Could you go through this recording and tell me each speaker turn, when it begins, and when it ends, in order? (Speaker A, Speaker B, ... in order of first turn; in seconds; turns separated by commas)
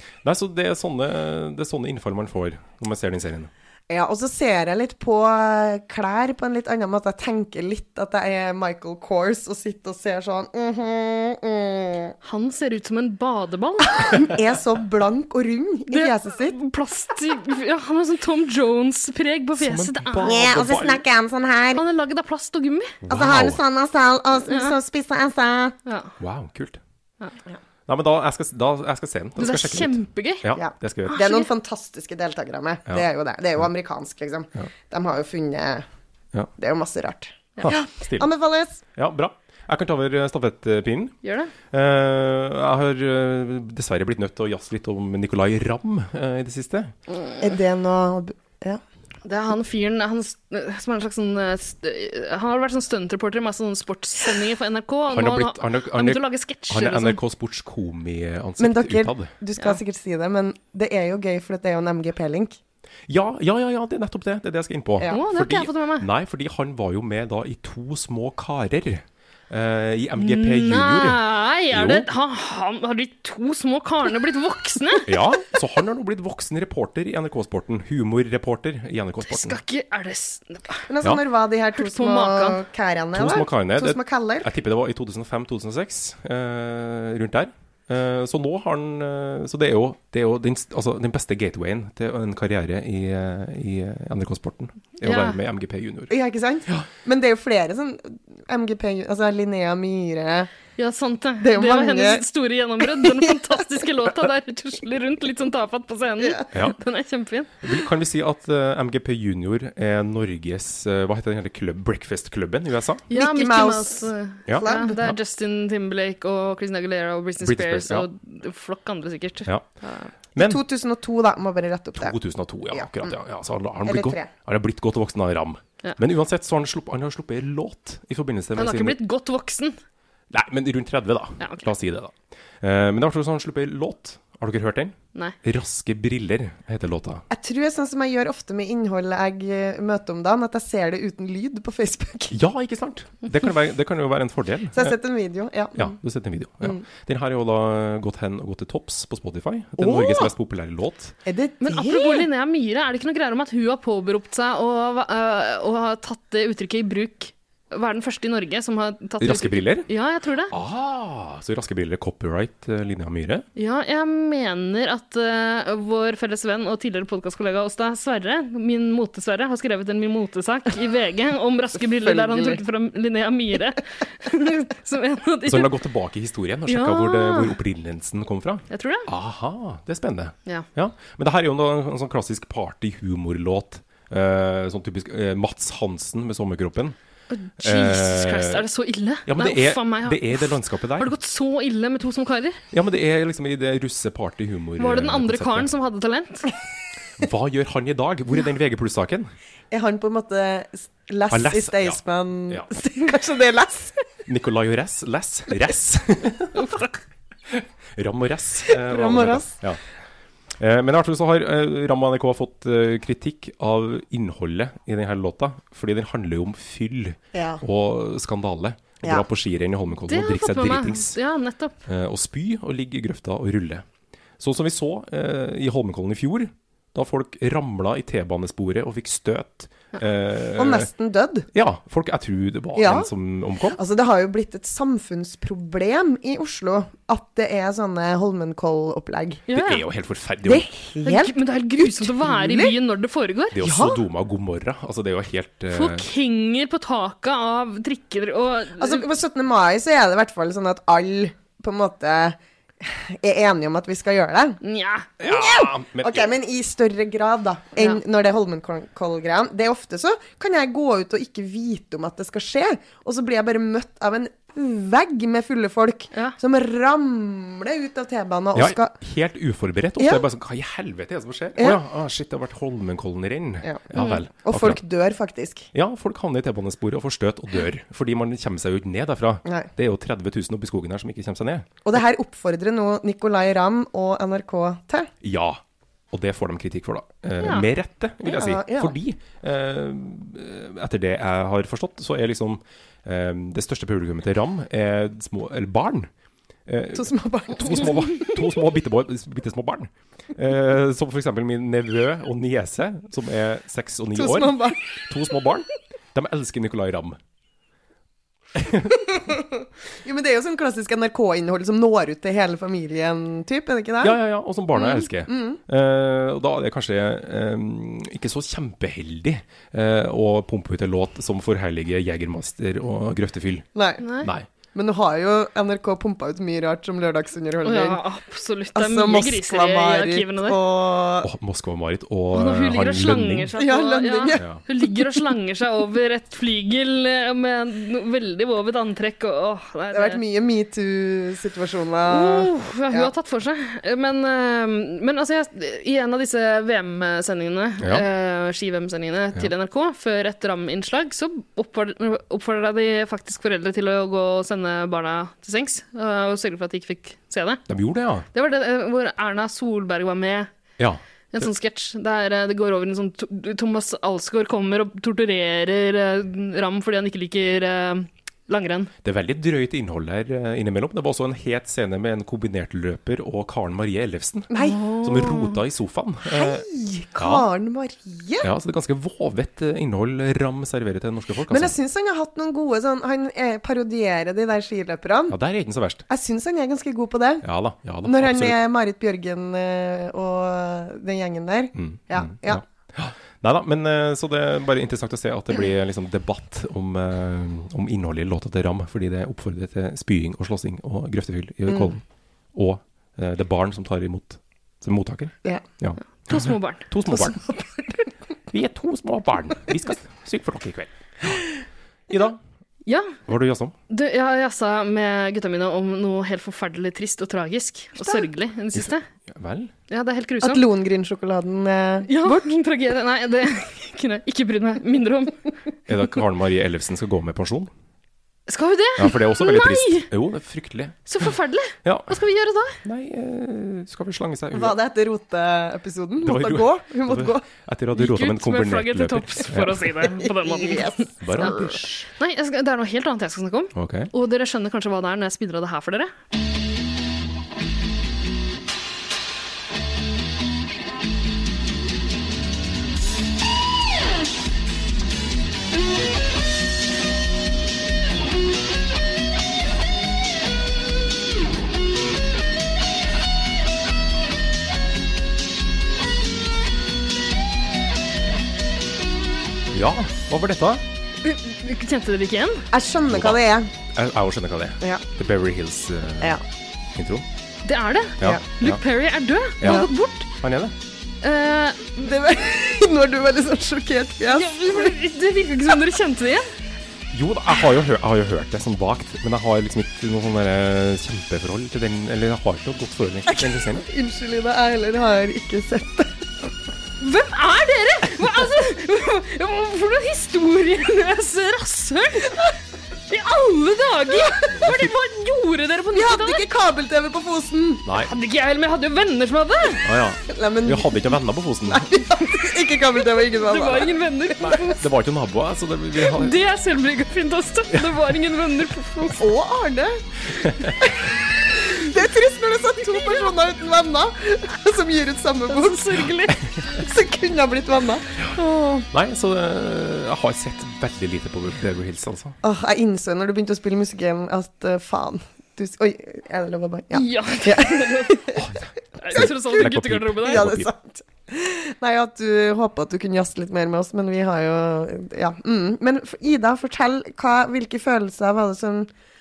Speaker A: 0.2-3.5, Speaker B: 3.9-12.2, Speaker C: 12.2-14.3, Speaker B: 14.0-16.6, Speaker C: 15.9-20.4, Speaker A: 19.6-21.0, Speaker B: 20.2-21.8, Speaker C: 21.7-23.0, Speaker A: 23.0-23.6, Speaker B: 23.1-25.8, Speaker C: 24.5-24.8, Speaker C: 25.9-26.1, Speaker A: 26.2-26.8, Speaker A: 27.9-31.2, Speaker C: 29.4-30.4, Speaker B: 30.6-35.9, Speaker C: 31.1-31.5, Speaker B: 36.6-38.8, Speaker A: 37.6-38.3, Speaker A: 39.0-41.2, Speaker C: 41.2-41.5, Speaker A: 41.7-46.9, Speaker B: 47.4-48.8, Speaker C: 49.2-57.2, Speaker A: 55.1-59.3, Speaker B: 58.6-62.6, Speaker A: 63.1-72.1, Speaker C: 65.1-66.1, Speaker C: 70.2-75.1, Speaker A: 75.1-79.6, Speaker C: 79.3-80.9, Speaker B: 80.9-84.5, Speaker C: 81.8-82.6, Speaker A: 83.1-96.1, Speaker C: 95.0-95.4, Speaker B: 96.1-100.5, Speaker C: 100.8-107.6, Speaker B: 101.4-102.2, Speaker B: 102.8-103.6, Speaker A: 107.6-113.0, Speaker C: 113.1-120.1, Speaker B: 113.1-115.0, Speaker A: 114.5-115.2, Speaker A: 117.4-118.1, Speaker B: 120.4-122.2, Speaker A: 122.0-129.0, Speaker B: 122.7-123.2, Speaker B: 123.8-124.3, Speaker C: 128.6-129.8, Speaker A: 130.3-137.2, Speaker C: 131.4-131.7, Speaker B: 137.3-142.4, Speaker A: 142.3-144.9, Speaker B: 144.7-146.0, Speaker A: 145.8-151.2, Speaker B: 149.8-150.3, Speaker B: 151.2-152.3, Speaker C: 151.6-160.5, Speaker A: 159.2-159.9, Speaker A: 160.5-163.5, Speaker C: 163.6-175.8, Speaker B: 171.8-172.6, Speaker A: 175.5-187.0, Speaker C: 176.7-177.6, Speaker C: 178.7-179.1, Speaker C: 187.3-192.6, Speaker A: 187.6-188.6, Speaker A: 189.3-191.1, Speaker A: 192.7-195.7, Speaker C: 194.8-196.5, Speaker A: 197.2-199.3, Speaker B: 199.7-204.0, Speaker A: 201.3-202.7, Speaker A: 204.3-206.5, Speaker C: 206.6-207.0, Speaker A: 207.5-209.8, Speaker B: 208.7-209.6, Speaker A: 210.6-221.2, Speaker B: 217.3-217.6, Speaker C: 220.1-221.8, Speaker A: 221.9-223.8, Speaker A: 224.4-230.9, Speaker B: 230.6-231.5, Speaker A: 231.5-233.8, Speaker B: 232.8-233.1, Speaker B: 233.7-239.4, Speaker C: 239.5-239.8, Speaker A: 239.5-240.7, Speaker B: 240.4-242.8, Speaker C: 241.0-243.6, Speaker A: 243.5-246.1, Speaker B: 243.6-244.0, Speaker C: 245.7-249.1, Speaker B: 248.8-254.6, Speaker C: 254.6-255.1, Speaker A: 255.2-256.3, Speaker B: 255.2-268.9, Speaker A: 268.6-274.8, Speaker B: 270.0-270.2, Speaker B: 274.4-275.7, Speaker A: 275.7-281.7, Speaker B: 279.4-279.7, Speaker B: 281.9-285.1, Speaker A: 285.2-285.6, Speaker A: 286.1-296.1, Speaker B: 288.2-289.0, Speaker A: 296.7-307.2, Speaker B: 296.9-298.3, Speaker B: 304.1-304.9, Speaker A: 308.6-308.9, Speaker B: 309.1-314.2, Speaker A: 314.0-323.7, Speaker B: 315.3-315.6, Speaker B: 323.8-324.1, Speaker C: 324.0-324.3, Speaker A: 324.2-324.5, Speaker B: 324.7-328.0, Speaker C: 327.6-330.6, Speaker B: 328.8-331.3, Speaker A: 331.2-333.5, Speaker C: 332.3-340.2, Speaker B: 333.6-335.0, Speaker A: 334.4-334.6, Speaker B: 339.9-343.1, Speaker C: 342.1-357.6, Speaker A: 357.7-358.3, Speaker C: 358.3-360.5, Speaker A: 360.8-361.5, Speaker C: 361.3-368.9, Speaker A: 369.0-376.6, Speaker B: 374.5-374.8, Speaker C: 374.6-375.6, Speaker B: 376.3-378.5, Speaker A: 377.2-377.5, Speaker A: 378.4-381.8, Speaker B: 381.5-385.4, Speaker A: 385.3-386.1, Speaker B: 386.1-387.4, Speaker A: 387.4-388.6, Speaker B: 388.0-392.6, Speaker A: 391.8-402.0, Speaker B: 401.7-401.9, Speaker A: 402.5-407.4, Speaker C: 406.3-406.9, Speaker B: 407.1-408.0, Speaker A: 408.5-411.4, Speaker A: 412.1-412.4, Speaker C: 412.9-413.2, Speaker A: 413.3-413.8, Speaker C: 413.9-419.1, Speaker A: 418.8-419.7, Speaker C: 419.9-420.6, Speaker B: 420.4-422.5, Speaker C: 422.1-425.4, Speaker A: 425.9-427.7, Speaker C: 428.5-430.1, Speaker A: 429.0-431.1, Speaker C: 431.1-432.8, Speaker A: 431.8-432.1, Speaker A: 432.8-434.8, Speaker B: 434.5-437.5, Speaker A: 436.2-440.0, Speaker C: 437.9-441.6, Speaker B: 440.2-441.7, Speaker A: 441.2-442.1, Speaker C: 442.2-446.1, Speaker A: 443.8-444.1, Speaker A: 469.7-470.8, Speaker C: 471.2-472.7, Speaker B: 472.7-473.7, Speaker A: 473.1-473.4, Speaker A: 473.9-476.4, Speaker A: 476.9-477.2, Speaker C: 477.6-480.3, Speaker A: 478.2-478.8, Speaker A: 479.6-479.9, Speaker A: 480.4-480.7, Speaker C: 481.2-482.1, Speaker B: 482.0-484.9, Speaker C: 484.3-486.5, Speaker A: 487.1-493.9, Speaker B: 493.3-496.2, Speaker C: 497.0-502.5, Speaker C: 503.1-506.4, Speaker A: 504.5-504.9, Speaker B: 505.9-507.9, Speaker C: 508.1-509.8, Speaker A: 509.8-511.9, Speaker B: 510.3-514.0, Speaker C: 513.4-514.9, Speaker A: 514.4-516.4, Speaker C: 516.0-519.3, Speaker B: 519.2-520.0, Speaker A: 520.3-520.8, Speaker B: 520.8-525.9, Speaker C: 522.9-523.3, Speaker C: 525.5-526.4, Speaker B: 526.8-528.9, Speaker A: 528.9-532.4, Speaker B: 532.4-538.4, Speaker C: 536.9-538.3, Speaker A: 538.4-540.7, Speaker C: 539.0-540.5, Speaker B: 539.1-539.7, Speaker B: 540.2-548.9